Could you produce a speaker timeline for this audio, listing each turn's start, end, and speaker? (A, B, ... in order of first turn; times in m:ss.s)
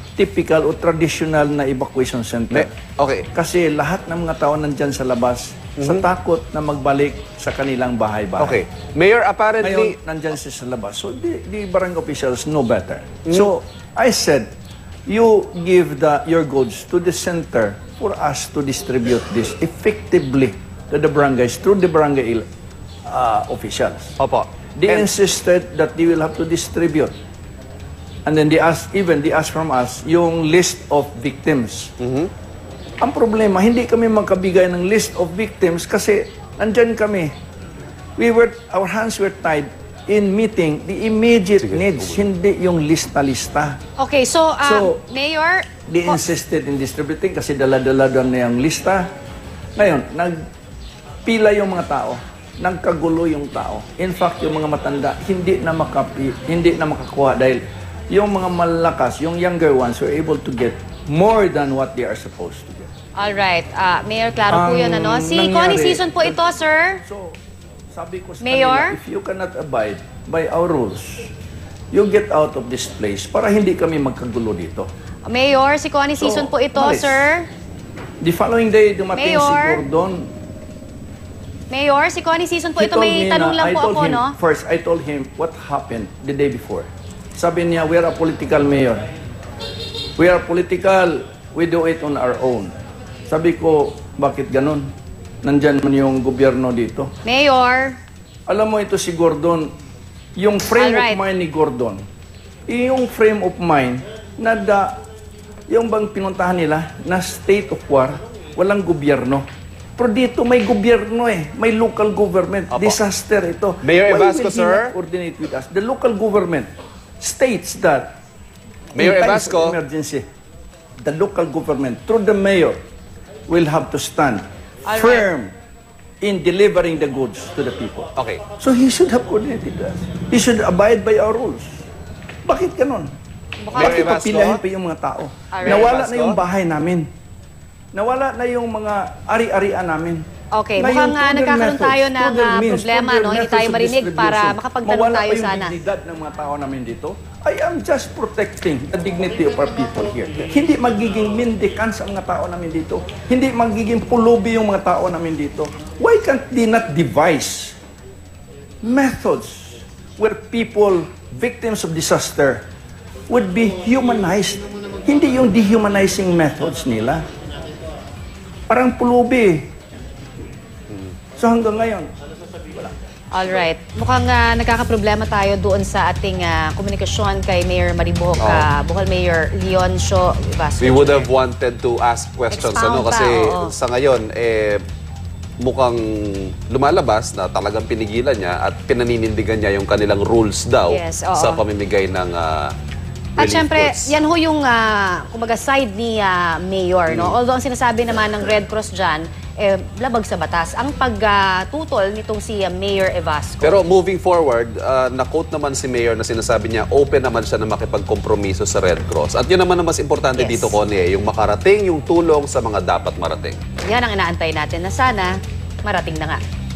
0:00.2-0:02.7 A
0:02.5-0:03.3 B
0:03.3-0:08.6 A
0:05.8-0:06.0 B
0:08.4-0:10.0 B
0:09.6-0:14.5 A
0:15.1-0:22.4 A
0:23.0-0:24.1 A
0:24.2-0:25.1 B
0:24.8-0:27.1 A
0:28.2-0:31.9 A
0:32.0-0:32.3 B
0:33.0-0:37.3 A
0:38.2-0:43.8 A
0:41.6-0:42.2 B
0:44.0-0:46.2 C
0:44.6-0:45.0 A
0:45.9-0:49.1 A
0:49.8-0:50.4 A
0:51.2-1:02.9 A
1:03.2-1:07.0 C
1:04.5-1:06.4 A
1:07.0-1:07.4 A
1:07.9-1:11.3 A
1:08.4-1:09.0 C
1:11.9-1:14.9 A
1:15.2-1:17.5 C
1:16.2-1:17.3 A
1:18.2-1:20.3 A
1:19.1-1:19.8 C
1:21.7-1:24.4 C
1:22.8-1:29.0 A
1:30.2-1:32.7 A
1:33.3-1:34.9 A
1:35.4-1:37.1 A
1:37.2-1:38.0 C
1:38.5-1:39.7 A
1:40.4-1:42.0 A
1:40.8-1:41.2 C
1:42.7-1:45.0 A
1:45.7-1:58.2 A
1:52.7-1:53.0 B
1:53.8-1:54.9 B
1:58.9-1:59.8 B
1:58.9-2:00.2 A
2:01.0-2:02.8 A
2:03.5-2:05.5 A
2:04.8-2:05.3 C
2:06.2-2:11.8 A
2:08.2-2:08.4 B
2:12.4-2:13.1 A
2:13.6-2:14.0 C
2:13.7-2:14.6 B
2:13.7-2:17.1 A
2:15.5-2:15.9 C
2:15.6-2:16.4 B
2:17.9-2:20.2 A
2:20.5-2:25.8 C
2:20.8-2:37.8 A
2:38.8-2:42.6 A
2:43.3-2:47.2 A
2:48.7-2:49.7 A
2:51.4-2:52.1 A
2:53.3-3:01.3 C
2:58.4-2:58.7 B
3:00.8-3:04.8 B
3:02.5-3:03.7 C
3:05.6-3:12.7 B
3:10.9-3:11.6 C
3:13.4-3:23.8 C
3:13.4-3:14.1 B
3:17.1-3:17.4 B
3:23.6-3:33.6 B
3:30.3-3:30.8 C
3:33.8-3:36.4 C